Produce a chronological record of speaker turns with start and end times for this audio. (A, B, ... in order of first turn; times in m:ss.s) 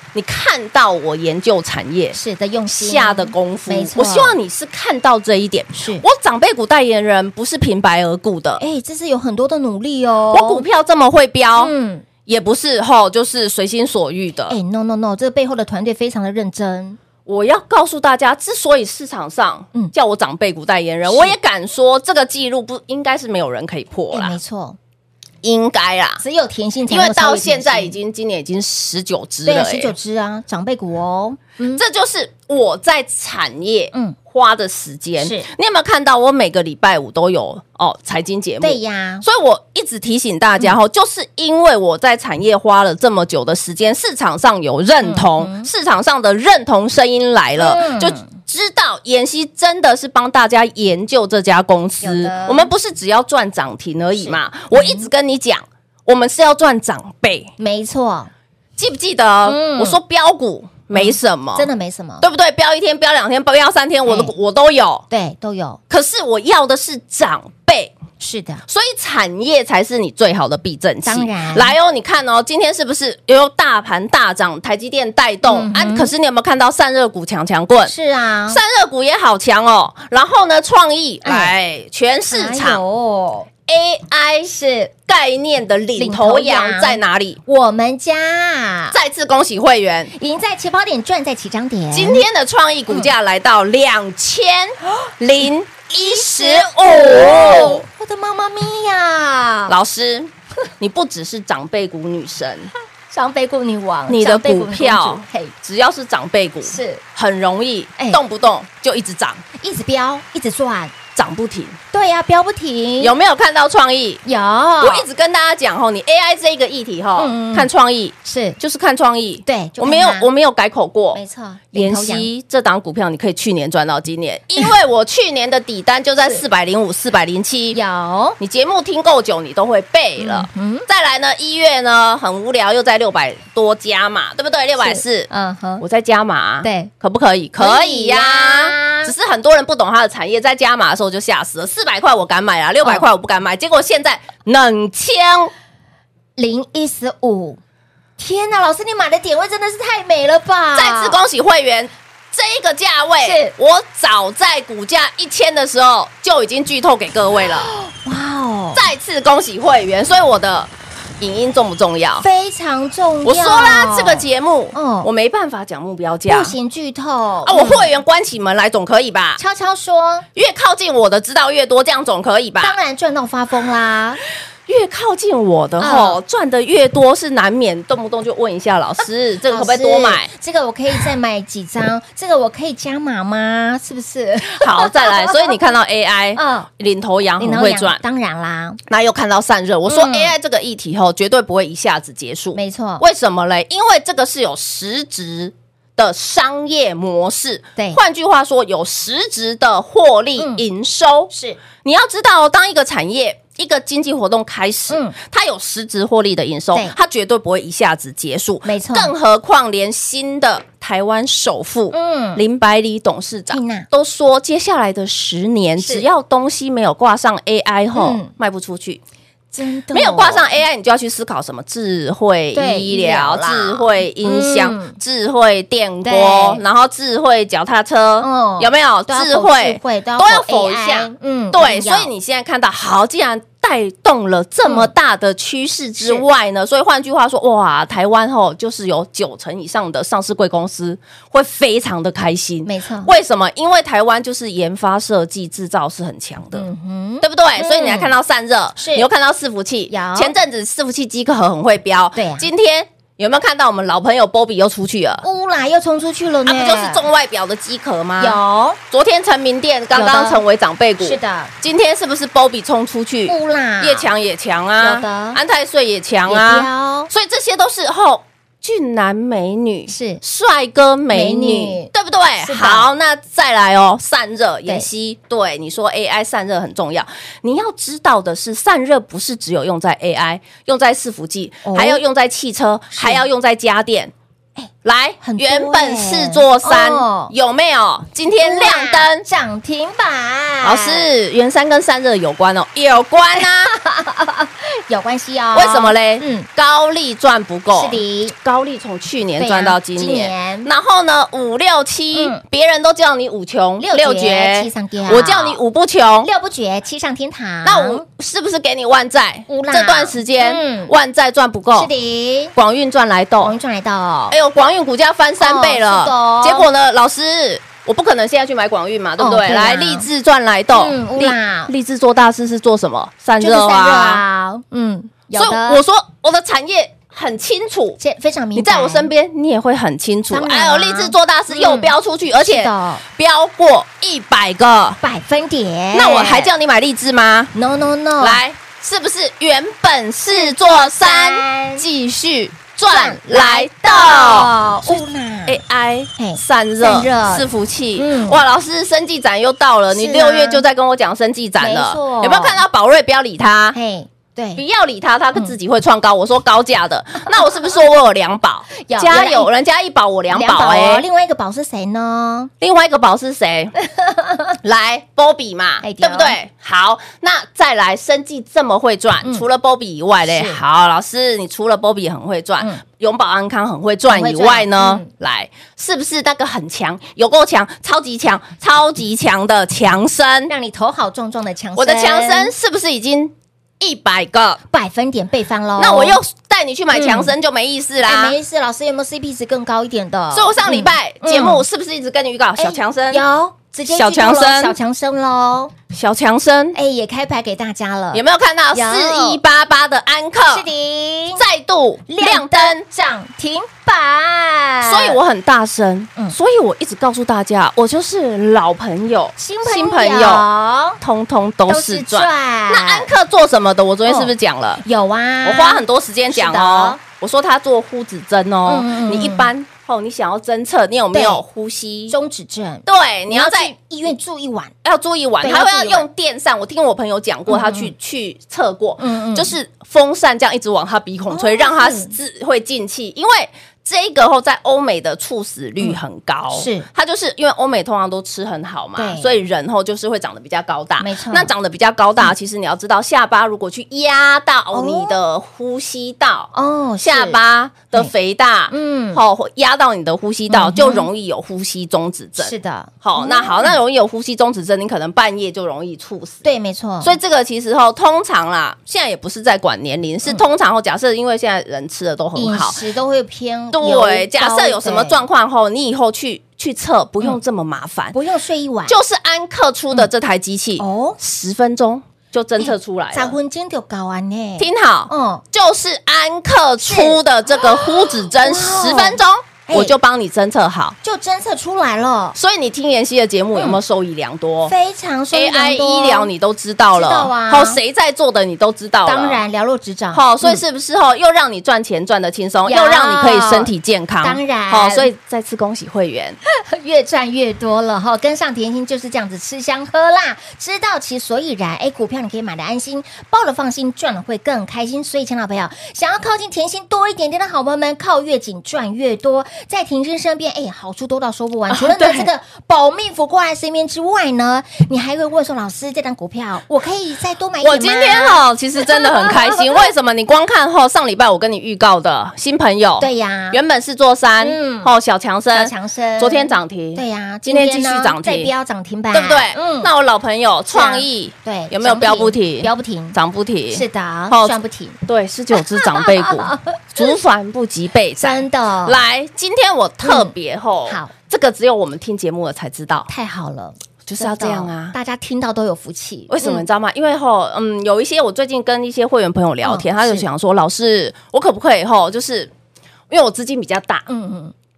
0:00.1-0:02.2 A
0:02.1-0:04.4 B
0:02.7-0:08.6 A
0:05.7-0:06.0 B
0:08.6-0:10.6 B
0:10.3-0:11.7 A
0:11.6-0:12.0 B
0:12.2-0:14.6 A
0:14.5-0:17.0 B
0:17.2-0:24.3 A
0:21.0-0:21.4 B
0:24.1-0:24.8 B
0:25.4-0:26.2 A
0:26.2-0:28.0 B
0:26.9-0:29.9 A
0:29.4-0:31.8 B
0:31.8-0:57.5 A
0:35.2-0:35.5 B
0:38.6-0:39.2 B
0:45.0-0:45.7 B
0:47.6-0:48.3 B
0:52.0-0:52.7 B
0:54.2-0:55.1 B
0:57.6-0:58.3 B
0:58.8-1:01.7 A
0:59.4-1:00.0 B
1:00.9-1:02.2 B
1:02.2-1:05.0 A
1:04.0-1:04.3 B
1:05.1-1:05.8 B
1:05.9-1:07.9 A
1:08.2-1:08.6 B
1:08.7-1:17.9 A
1:11.0-1:11.7 B
1:15.5-1:16.1 B
1:17.8-1:18.6 B
1:18.5-1:22.8 A
1:21.2-1:21.5 B
1:22.3-1:23.5 B
1:23.7-1:27.4 A
1:24.5-1:24.9 B
1:26.0-1:29.0 B
1:28.9-1:30.1 A
1:30.1-1:32.2 B
1:31.9-1:37.8 A
1:36.0-1:39.7 B
1:39.7-1:40.3 A
1:40.8-1:42.7 A
1:43.1-1:45.5 B
1:44.1-1:49.4 A
1:46.6-1:47.0 B
1:49.6-1:50.9 B
1:51.1-1:51.8 A
1:51.9-1:53.1 B
1:53.0-1:54.2 A
1:54.2-1:55.0 B
1:54.8-2:01.2 A
1:57.2-1:57.7 B
1:58.2-1:58.6 B
1:59.4-2:00.3 B
2:01.1-2:02.3 B
2:01.7-2:07.8 A
2:07.7-2:08.4 B
2:08.4-2:15.3 A
2:10.2-2:10.9 B
2:14.8-2:15.8 B
2:15.8-2:25.5 A
2:16.6-2:16.9 B
2:17.6-2:19.1 B
2:26.4-2:27.6 B
2:28.2-2:31.2 B
2:30.8-2:37.7 A
2:33.2-2:33.5 B
2:37.5-2:38.9 B
2:38.7-2:42.2 A
2:42.2-2:45.1 B
2:43.2-2:46.6 A
2:46.3-2:47.9 B
2:47.4-2:49.4 A
2:49.4-2:50.2 B
2:50.3-2:52.8 A
2:52.6-2:54.2 B
2:54.7-3:00.3 A
2:55.8-2:56.2 B
2:59.5-3:05.5 B
3:04.6-3:08.0 A
3:06.3-3:06.7 B
3:07.4-3:08.8 B
3:08.9-3:21.3 A
3:09.9-3:10.3 B
3:12.5-3:13.0 B
3:20.4-3:20.6 B
3:21.3-3:21.6 B
3:21.8-3:39.0 A
3:24.9-3:25.2 B
3:28.6-3:29.1 B
3:31.9-3:32.4 B
3:33.5-3:33.8 B
3:35.8-3:36.0 B
3:37.9-3:38.3 B
3:39.5-3:40.6 B
3:39.9-4:06.7 A
3:42.5-3:45.0 B
3:46.0-3:46.6 B
3:48.2-3:52.1 B
3:54.6-3:54.9 B
3:56.0-3:56.2 B
4:02.6-4:03.1 B
4:06.5-4:08.1 B
4:07.2-4:15.2 A
4:08.8-4:09.1 B
4:09.9-4:10.3 B
4:12.2-4:12.5 B
4:15.2-4:17.0 B
4:16.5-4:18.4 A
4:18.2-4:18.8 B
4:18.9-4:44.1 A
4:19.9-4:20.4 B
4:21.0-4:21.5 B
4:23.3-4:24.1 B
4:24.8-4:25.4 B
4:26.3-4:27.1 B
4:29.9-4:30.2 B
4:31.1-4:31.9 B
4:32.4-4:32.9 B
4:41.6-4:42.0 B
4:42.9-4:43.2 B
4:44.8-4:49.2 A
4:45.2-4:47.3 B
4:48.4-4:51.0 B
4:50.6-4:53.7 A
4:53.4-4:56.5 B
4:55.5-5:06.3 A
4:57.7-4:58.4 B
4:59.4-5:00.7 B
5:02.1-5:02.4 B
5:03.8-5:05.6 B
5:06.2-5:08.0 B
5:07.6-5:11.9 A
5:09.5-5:10.9 B
5:11.8-5:12.5 B
5:12.5-5:13.5 A
5:13.4-5:14.4 B
5:14.3-5:24.2 A
5:15.4-5:16.7 B
5:19.2-5:20.1 B
5:20.7-5:21.7 B
5:23.4-5:25.8 B
5:25.3-5:28.0 A
5:28.0-5:29.1 B
5:28.6-5:35.0 A
5:30.3-5:33.0 B
5:35.0-5:36.5 B
5:35.9-5:37.5 A
5:37.5-5:38.4 B
5:38.2-5:53.8 A
5:40.3-5:41.8 B
5:42.9-5:45.6 B
5:46.2-5:47.4 B
5:48.0-5:48.4 B
5:49.9-5:50.6 B
5:51.6-5:52.6 B
5:53.7-5:54.6 B
5:54.6-6:01.0 A
5:58.8-5:59.5 B
6:00.3-6:02.5 B
6:02.6-6:03.7 A
6:03.8-6:04.5 B
6:04.6-6:20.5 A
6:05.8-6:06.4 B
6:10.2-6:10.6 B
6:14.1-6:15.1 B
6:20.5-6:22.5 B
6:21.8-6:24.6 A
6:24.7-6:26.2 B
6:25.8-6:28.3 A
6:26.9-6:27.3 B
6:28.0-6:31.6 B
6:30.3-6:33.2 A
6:32.6-6:35.7 B
6:33.9-6:34.8 A
6:35.9-6:36.8 A
6:36.7-6:39.4 B
6:38.1-6:40.7 A
6:40.5-6:41.4 B
6:41.4-6:42.8 A
6:42.1-6:45.2 B
6:44.8-6:50.4 A
6:49.4-6:51.0 B
6:51.0-6:54.8 A
6:51.7-6:53.1 B
6:54.0-6:54.3 B
6:54.8-6:57.0 B
6:55.4-7:02.1 A
6:58.7-6:59.5 B
7:01.1-7:01.4 B
7:02.1-7:04.7 B
7:02.8-7:03.7 A
7:04.8-7:26.5 A
7:05.4-7:06.0 B
7:07.5-7:07.9 B
7:09.0-7:09.5 B
7:11.3-7:12.1 B
7:16.5-7:16.8 B
7:19.0-7:19.3 B
7:21.0-7:21.5 B
7:24.7-7:25.2 B
7:26.5-7:27.4 B
7:27.0-7:36.4 A
7:28.7-7:29.2 B
7:30.5-7:31.1 B
7:32.4-7:33.8 B
7:36.4-7:37.2 B
7:37.0-7:42.8 A
7:42.3-7:45.2 B
7:43.7-7:48.2 A
7:48.1-7:49.0 B
7:48.9-7:53.4 A
7:50.8-7:51.2 B
7:52.6-7:55.4 B
7:54.6-8:01.0 A
7:56.8-7:59.9 B
8:01.0-8:02.4 B
8:02.3-8:04.7 A
8:04.7-8:06.3 B
8:05.3-8:09.4 A
8:06.9-8:07.8 B
8:09.0-8:10.6 B
8:10.1-8:16.4 A
8:12.6-8:13.7 B
8:14.2-8:15.1 B
8:16.5-8:39.8 B
8:31.7-8:32.3 A
8:37.6-8:48.5 A
8:43.0-8:43.6 B
8:44.4-8:44.9 B
8:45.5-8:49.9 B
8:49.1-9:03.1 A
8:50.7-8:53.2 B
8:53.7-8:55.0 B
8:55.7-8:57.1 B
8:58.2-8:59.0 B
9:00.0-9:00.3 B
9:00.9-9:01.1 B
9:03.1-9:06.6 B
9:04.0-9:04.9 A
9:06.3-9:12.5 A
9:09.6-9:10.2 B
9:13.1-9:14.0 A
9:14.1-9:14.5 B